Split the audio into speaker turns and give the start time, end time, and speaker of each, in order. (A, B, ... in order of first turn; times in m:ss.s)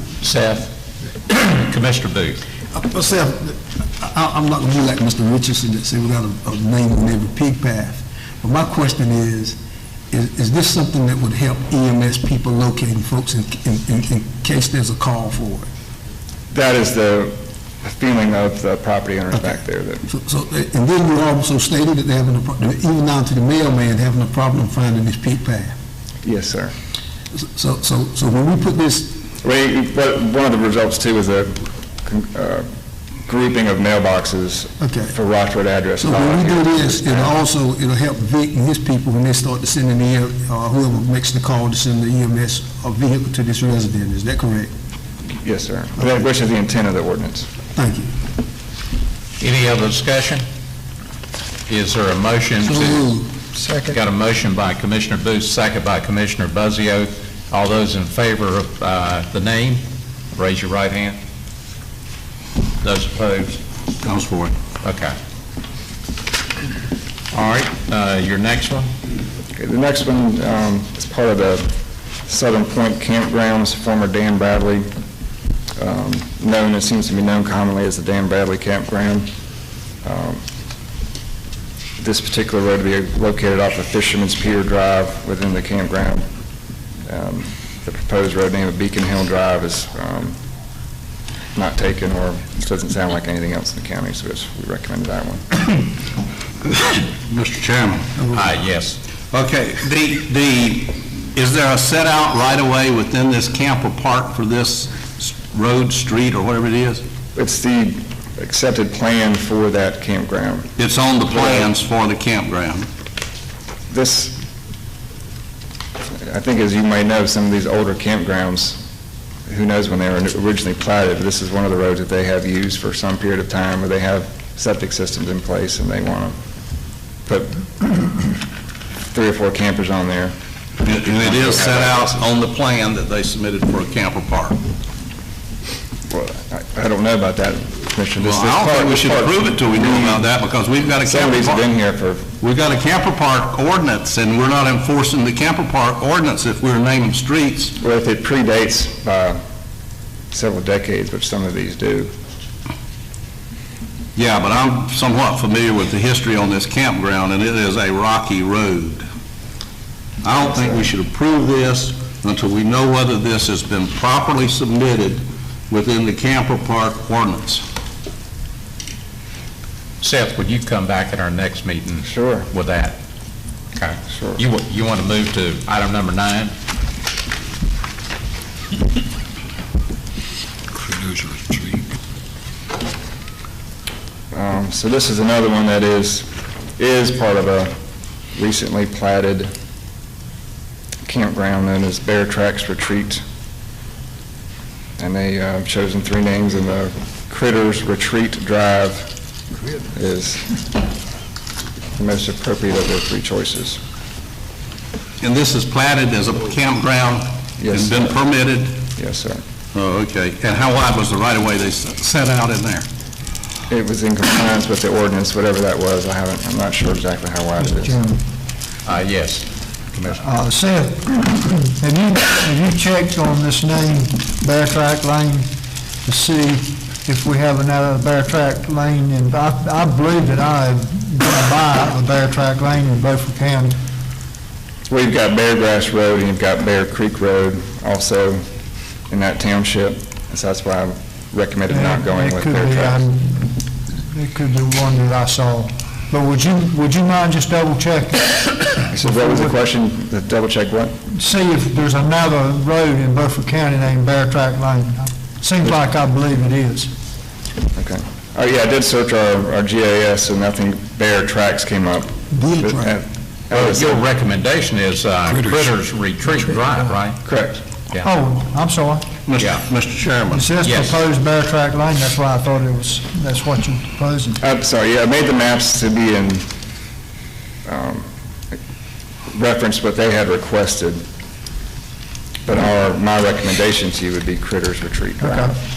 0:00.2-0:00.7 A
0:01.3-0:02.4 A
0:02.7-0:09.6 B
0:10.1-0:15.7 B
0:16.5-0:20.0 C
0:20.1-0:25.7 B
0:26.2-0:26.7 C
0:27.4-0:29.2 B
0:29.4-0:32.6 C
0:33.2-0:37.4 C
0:34.8-0:35.1 B
0:36.0-0:44.7 B
0:45.4-0:47.5 C
0:47.8-0:48.1 B
0:49.4-0:50.4 A
0:51.7-0:53.1 A
0:52.6-0:53.3 B
0:53.8-0:59.8 A
1:00.4-1:01.2 A
1:02.8-1:03.6 A
1:04.0-1:04.5 D
1:04.8-1:05.1 A
1:07.3-1:08.9 A
1:09.6-1:11.7 C
1:12.2-1:14.9 C
1:15.8-1:19.3 C
1:20.0-1:20.4 C
1:22.0-1:26.2 C
1:27.1-1:30.4 C
1:31.5-1:35.6 C
1:36.9-1:38.2 D
1:38.3-1:39.0 A
1:39.3-1:47.0 D
1:47.3-1:50.7 C
1:50.8-1:52.9 D
1:51.3-1:51.7 C
1:53.9-1:54.4 C
1:56.2-1:58.8 C
1:59.5-2:06.4 C
2:07.2-2:08.3 C
2:09.1-2:12.3 C
2:10.8-2:14.6 D
2:16.1-2:20.2 C
2:18.2-2:21.6 D
2:21.0-2:22.3 C
2:22.4-2:27.7 D
2:27.8-2:29.4 C
2:30.3-2:32.1 C
2:34.1-2:39.0 D
2:40.2-2:47.6 D
2:40.3-2:40.9 C
2:50.0-2:53.0 A
2:52.0-2:52.5 C
2:53.7-2:56.5 A
2:54.1-2:54.4 C
3:04.3-3:06.3 C
3:06.8-3:07.7 C
3:08.3-3:09.5 C
3:11.0-3:13.2 C
3:15.0-3:19.1 C
3:19.9-3:20.6 C
3:22.0-3:23.8 C
3:25.2-3:28.8 D
3:27.6-3:28.2 C
3:29.0-3:29.4 C
3:29.7-3:32.8 D
3:33.7-3:38.0 C
3:37.6-3:38.2 E
3:38.8-3:40.2 A
3:40.1-3:45.5 E
3:46.0-3:53.8 E
3:54.9-3:58.4 C
3:59.1-4:03.1 C
4:01.7-4:09.5 E
4:08.9-4:11.0 C
4:11.1-4:16.9 E
4:17.8-4:24.1 C
4:22.3-4:22.9 B
4:23.5-4:27.2 A
4:27.2-4:27.6 C
4:28.0-4:29.0 E
4:29.3-4:30.5 D
4:29.4-4:29.6 A
4:30.3-4:34.4 E
4:30.6-4:31.0 A
4:34.4-4:36.5 C
4:37.6-4:38.1 C
4:39.3-4:41.0 C
4:42.4-4:45.5 C
4:45.2-4:45.5 E